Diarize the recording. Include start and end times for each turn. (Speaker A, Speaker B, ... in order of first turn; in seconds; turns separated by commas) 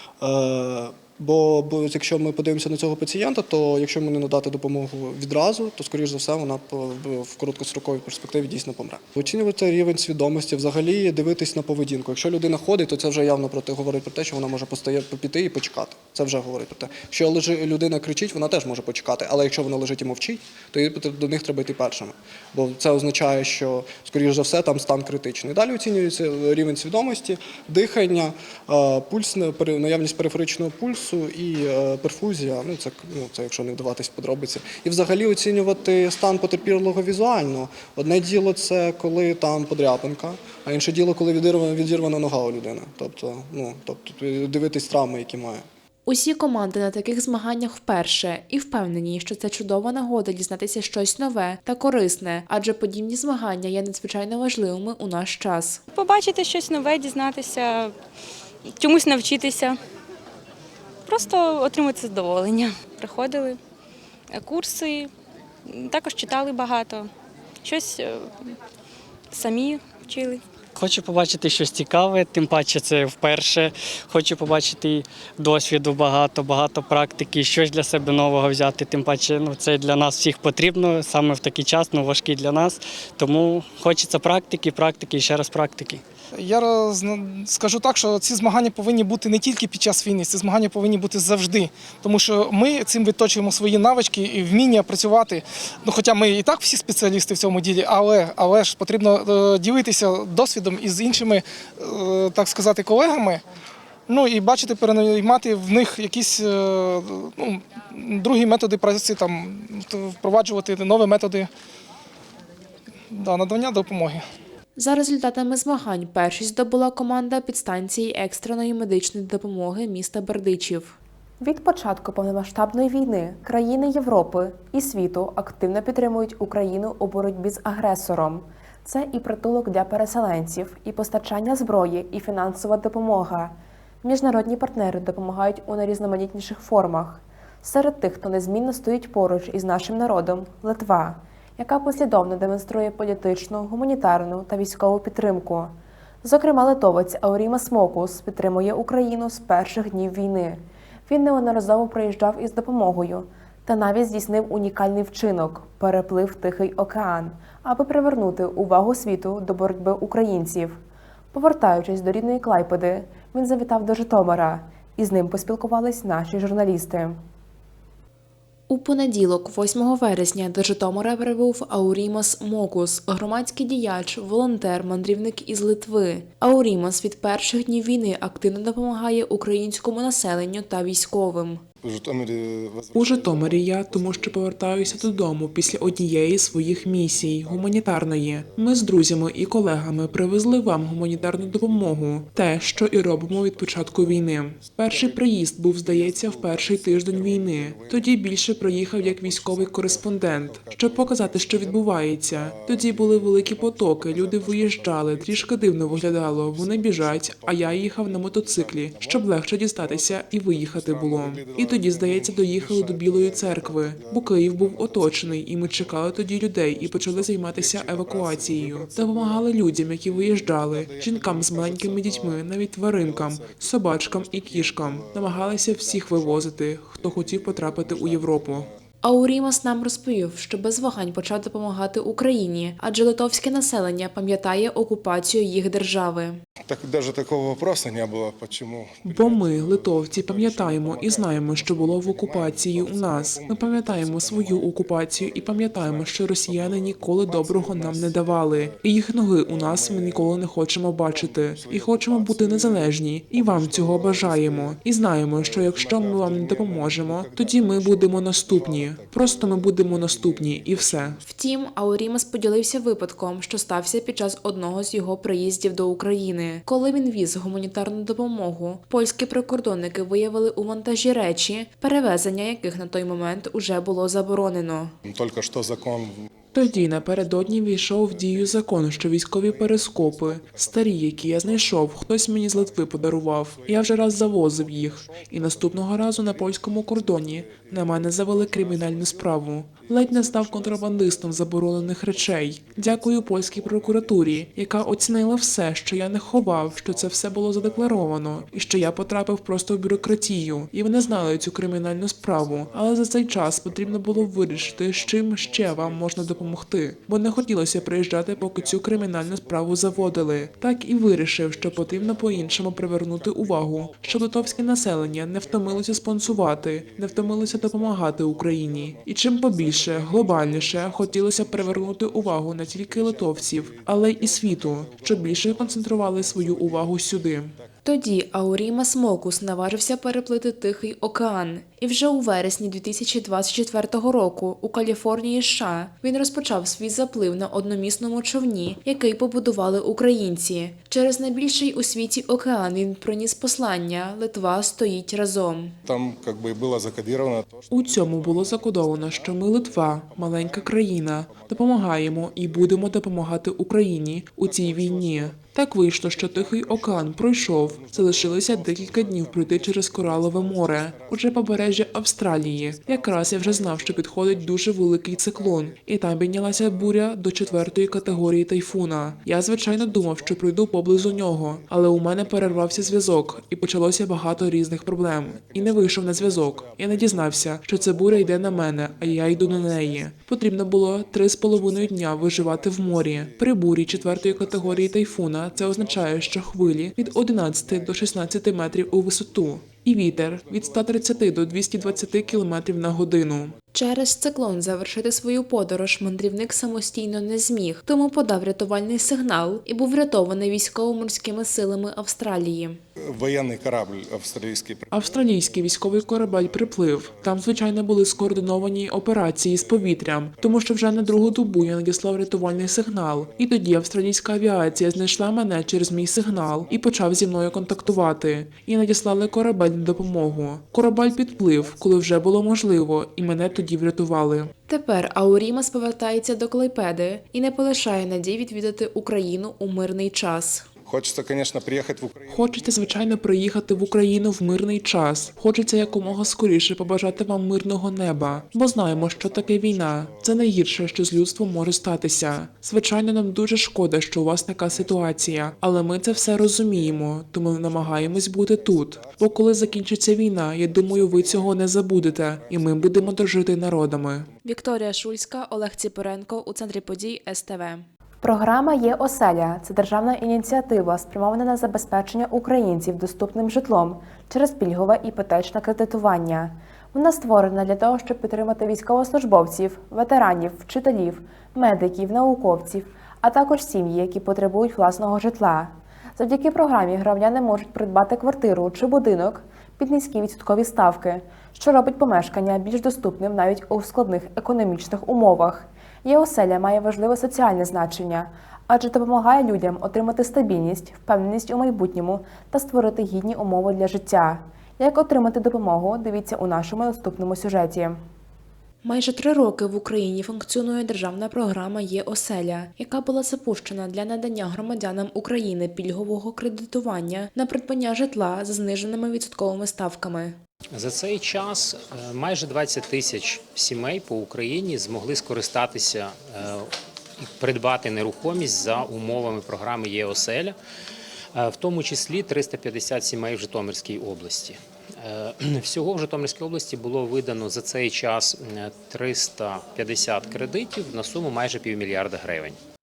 Speaker A: 0.2-45.6, Speaker B: 46.0-55.8, Speaker C: 55.9-57.9, Speaker C: 58.7-59.8, Speaker C: 61.0-63.6, Speaker C: 64.3-65.1, Speaker C: 65.7-67.1, Speaker C: 67.6-68.5, Speaker C: 69.3-70.4, Speaker D: 70.7-86.0, Speaker E: 86.3-103.4, Speaker E: 104.1-111.5, Speaker E: 113.1-114.2, Speaker B: 114.8-160.8, Speaker B: 161.3-167.2, Speaker B: 168.7-181.6, Speaker F: 181.8-183.6, Speaker G: 182.9-228.7, Speaker F: 217.9-218.9, Speaker B: 229.0-236.4, Speaker F: 236.7-244.4, Speaker G: 239.0-261.2, Speaker F: 247.5-248.1, Speaker F: 253.8-254.1, Speaker F: 256.3-257.0, Speaker B: 261.2-274.9, Speaker F: 275.0-276.3, Speaker G: 276.5-327.5, Speaker B: 327.8-345.8, Speaker F: 345.8-347.6, Speaker G: 347.7-393.5, Speaker B: 393.7-402.8, Speaker F: 403.0-404.8, Speaker G: 404.9-424.5, Speaker B: 424.7-430.7, Speaker F: 430.9-432.3, Speaker G: 432.3-454.3, Speaker B: 454.4-498.0, Speaker B: 498.8-510.4, Speaker H: 510.7-520.5, Speaker H: 521.3-532.6